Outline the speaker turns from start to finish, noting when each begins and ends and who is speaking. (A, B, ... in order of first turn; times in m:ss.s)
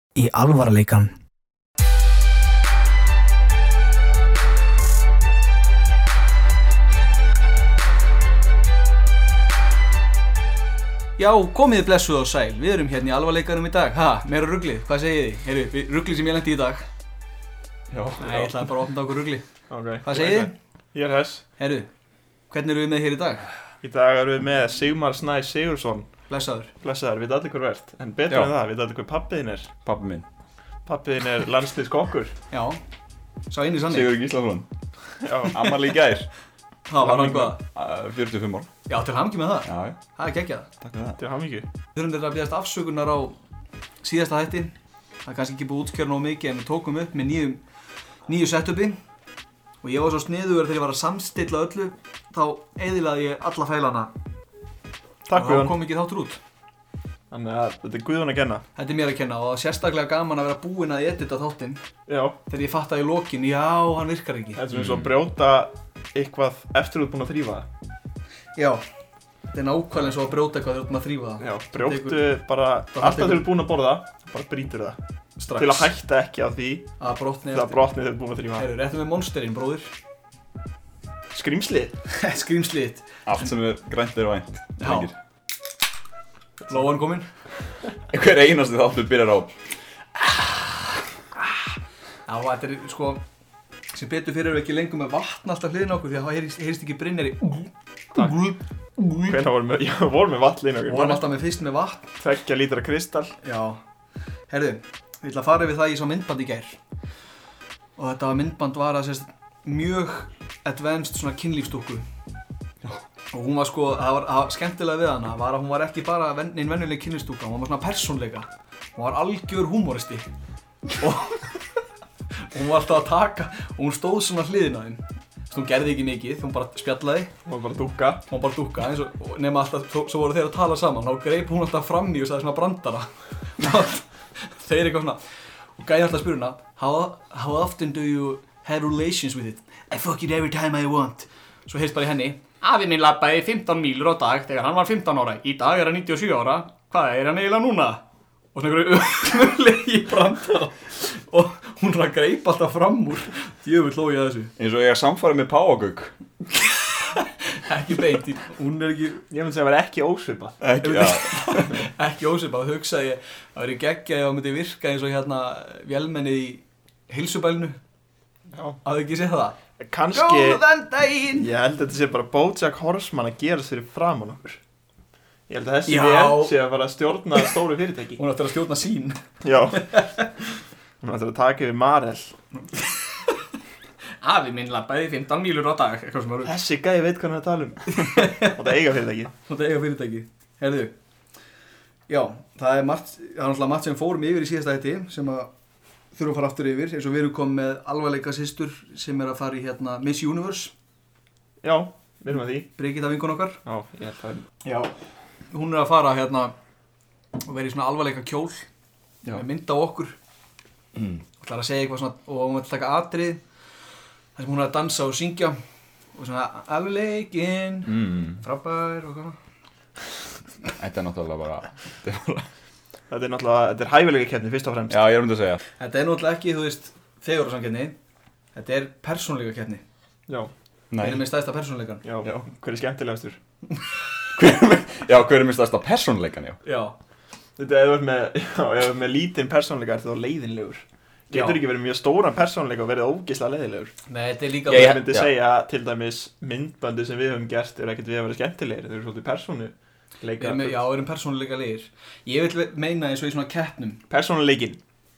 0:00.2-0:01.2 A
0:11.2-0:16.9 A
0:17.9-0:18.7 B
0:18.2-0:19.5 A
0:19.7-0:21.4 B
0:20.0-0:20.5 A
0:21.6-0:21.9 A
0:22.5-0:23.5 A
0:23.8-0:26.1 B
0:26.3-0:26.7 A
0:26.8-0:29.7 B
0:29.8-0:30.3 C
0:30.9-0:32.4 B
0:32.5-0:32.8 A
0:33.5-0:34.1 A
0:33.9-0:34.7 C
0:35.2-0:35.8 B
0:35.4-0:36.3 C
0:36.9-0:37.6 A
0:37.0-0:38.7 C
0:38.9-0:40.7 A
0:39.7-0:40.0 C
0:40.8-0:41.2 C
0:41.2-0:41.7 B
0:42.0-0:43.4 A
0:44.0-0:47.6 A
0:48.3-0:49.0 A
0:49.8-0:54.1 A
0:55.3-0:55.8 B
0:55.3-0:56.4 A
0:57.3-0:58.6 B
0:58.8-1:01.8 A
1:02.1-1:02.4 B
1:02.5-1:04.6 A
1:04.6-1:07.7 B
1:04.7-1:05.0 C
1:08.6-1:08.8 A
1:09.5-1:12.4 A
1:11.4-1:15.0 B
1:12.9-1:13.5 A
1:15.4-1:15.9 A
1:15.6-1:16.9 B
1:17.0-1:17.9 A
1:17.5-1:18.7 B
1:18.6-1:19.9 A
1:21.3-1:22.0 B
1:22.1-1:23.1 A
1:23.3-1:25.1 C
1:24.8-1:25.1 A
1:26.7-1:27.3 A
1:28.1-1:29.6 C
1:32.3-1:33.2 A
1:33.9-1:39.4 A
1:39.3-1:41.2 B
1:40.9-1:42.1 A
1:42.2-1:43.4 B
1:43.4-1:43.8 A
1:44.5-1:46.8 A
1:48.0-1:52.1 A
1:53.3-2:00.3 A
2:01.0-2:01.6 A
2:02.4-2:07.3 A
2:07.4-2:08.2 B
2:08.3-2:15.2 A
2:15.8-2:34.5 A
2:34.6-2:36.1 C
2:36.9-2:39.2 A
2:39.3-2:40.6 B
2:40.6-2:41.7 C
2:40.8-2:47.8 A
2:48.5-2:48.8 B
2:48.8-2:49.6 A
2:49.8-2:50.6 B
2:50.1-2:51.5 A
2:51.4-2:54.6 B
2:55.5-2:58.2 B
2:55.9-2:56.6 A
2:58.2-3:00.3 A
2:59.4-2:59.9 B
3:01.0-3:02.4 B
3:04.2-3:06.5 A
3:06.4-3:09.3 B
3:07.9-3:08.6 A
3:09.5-3:11.0 A
3:12.1-3:15.5 A
3:16.1-3:20.7 A
3:21.6-3:22.7 B
3:22.8-3:23.6 A
3:23.6-3:24.4 B
3:24.6-3:24.9 A
3:25.5-3:26.5 A
3:27.4-3:28.7 A
3:29.3-3:30.2 A
3:31.0-3:31.2 C
3:31.4-3:33.4 A
3:34.4-3:35.6 A
3:36.2-3:39.4 A
3:37.9-3:38.4 C
3:40.8-3:42.5 C
3:43.1-3:45.0 B
3:44.9-3:45.6 C
3:45.8-3:48.0 A
3:48.6-3:49.8 A
3:50.9-3:51.3 C
3:51.0-3:52.1 A
3:52.0-3:53.4 B
3:54.4-3:56.6 C
3:56.6-3:57.0 A
3:57.6-4:03.9 B
4:01.3-4:01.6 A
4:04.1-4:05.0 A
4:04.7-4:05.3 C
4:04.7-4:10.8 B
4:10.4-4:14.0 A
4:14.1-4:14.8 B